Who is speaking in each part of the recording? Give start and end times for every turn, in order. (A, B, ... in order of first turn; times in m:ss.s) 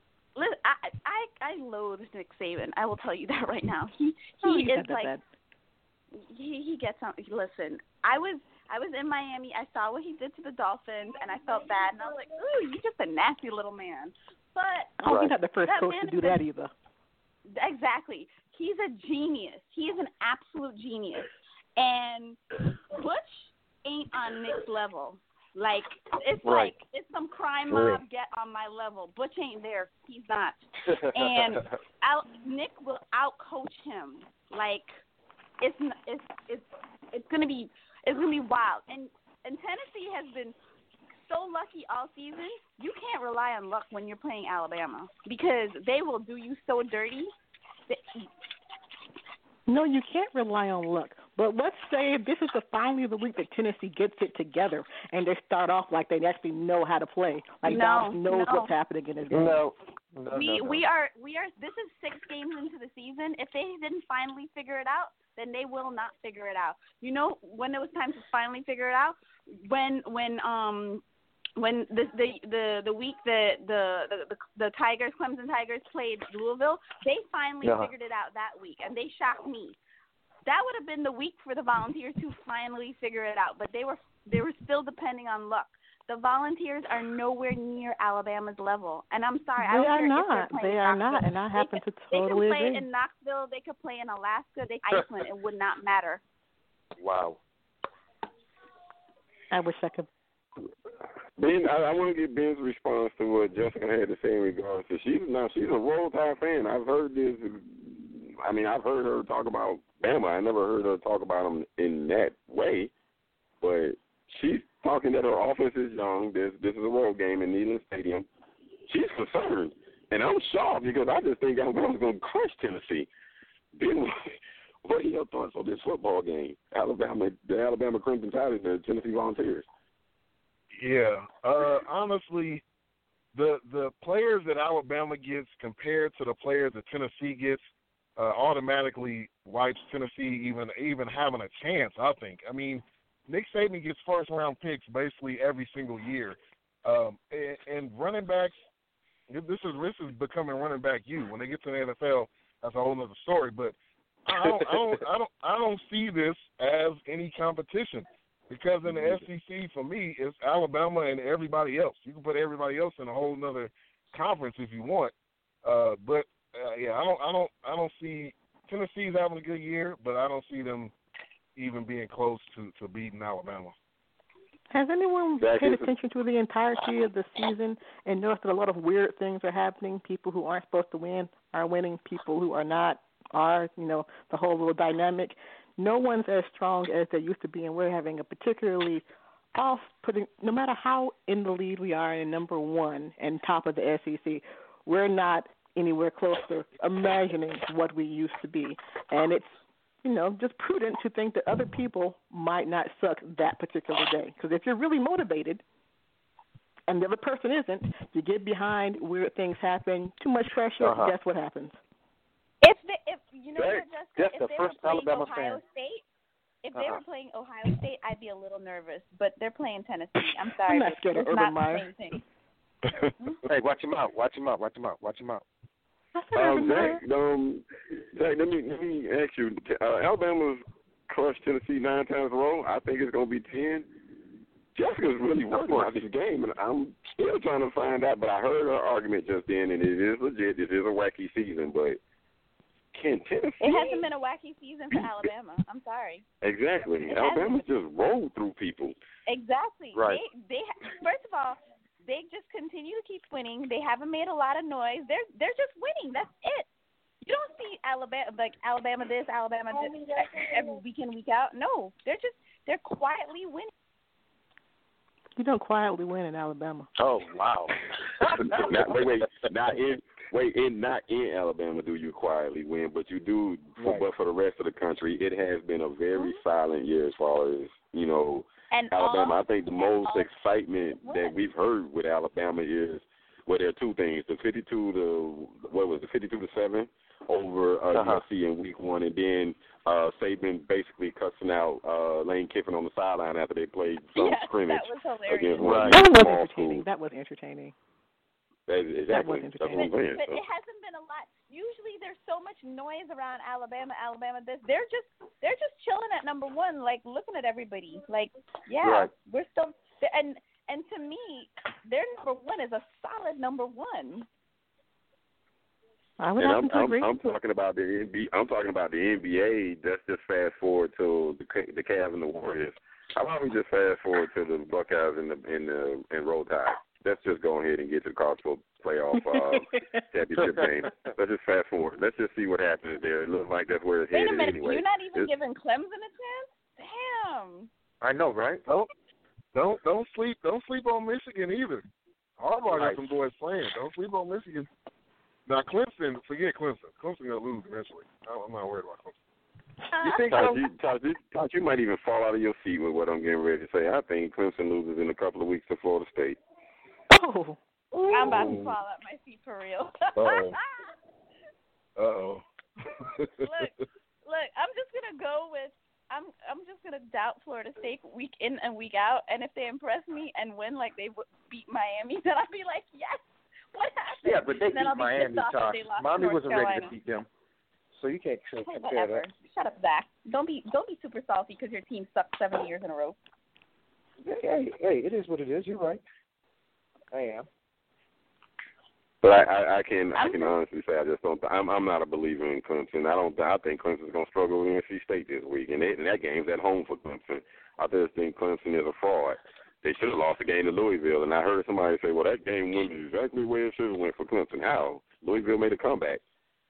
0:00.4-0:05.1 A
0:04.4-0:05.2 B
0:06.1-0:15.0 A
0:15.0-0:16.7 B
0:15.0-0:15.3 C
0:15.6-0:16.4 A
0:17.5-0:34.9 A
0:26.4-0:26.7 C
0:27.7-0:28.0 C
0:35.6-0:40.6 A
0:41.3-0:47.3 A
0:47.9-0:48.3 A
0:49.7-0:59.6 B
0:57.6-0:58.7 A
0:59.3-1:00.8 C
1:00.3-1:11.0 A
1:11.6-1:19.8 A
1:17.6-1:17.9 C
1:20.4-1:36.2 A
1:29.6-1:32.8 B
1:37.0-1:37.4 C
1:39.5-1:40.1 B
1:41.4-1:52.9 D
1:53.6-1:58.3 D
1:58.9-2:03.1 D
2:03.8-2:09.6 D
2:10.8-2:12.6 E
2:13.3-2:17.6 E
2:18.2-2:28.5 E
2:29.3-2:33.7 E
2:34.2-2:45.1 E
2:38.9-2:39.2 C
2:45.6-2:50.9 E
2:51.6-2:53.7 E
2:54.7-3:09.0 B
2:55.4-2:55.9 D
3:09.6-3:25.6 B
3:26.9-3:31.8 B
3:30.8-3:31.1 C
3:32.6-3:36.0 A
3:33.6-3:35.6 C
3:36.6-3:42.2 A
3:36.7-3:37.0 C
3:40.6-3:41.9 B
3:43.4-3:45.4 C
3:46.1-3:47.0 B
3:46.3-3:53.9 D
3:54.7-4:02.0 D
3:55.6-3:56.0 C
4:02.9-4:04.0 D
4:03.6-4:06.2 A
4:06.4-4:09.0 D
4:07.1-4:07.6 A
4:09.3-4:16.7 A
4:09.9-4:10.2 C
4:17.2-4:23.7 A
4:25.4-4:26.9 B
4:27.0-4:29.1 C
4:28.5-4:56.8 D
4:33.8-4:34.0 C
4:38.7-4:40.3 A
4:41.0-4:41.4 A
4:47.9-4:48.2 C
4:54.1-4:55.8 A
4:55.6-4:56.0 C
4:55.9-4:57.7 B
4:58.7-5:00.4 D
4:59.1-4:59.9 B
4:59.7-5:14.3 A
5:08.8-5:09.1 C
5:16.2-5:17.1 B
5:16.4-5:35.3 D
5:29.1-5:29.8 B
5:30.4-5:30.6 C
5:34.1-5:37.7 A
5:38.0-5:38.6 C
5:39.5-5:41.8 E
5:42.4-5:44.7 E
5:42.7-5:43.0 C
5:45.5-5:49.1 E
5:49.9-5:50.4 A
5:50.0-5:50.5 C
5:50.1-5:56.4 D
5:57.1-5:57.6 B
5:58.1-6:00.9 A
5:58.3-5:58.6 E
6:00.2-6:00.6 E
6:02.0-6:03.5 E
6:03.4-6:03.7 A
6:04.2-6:13.2 A
6:13.7-6:16.9 A
6:14.2-6:17.3 C
6:17.9-6:19.2 C
6:18.6-6:23.2 A
6:24.2-6:26.0 C
6:27.1-6:27.5 C
6:29.2-6:46.2 D
6:30.2-6:30.5 A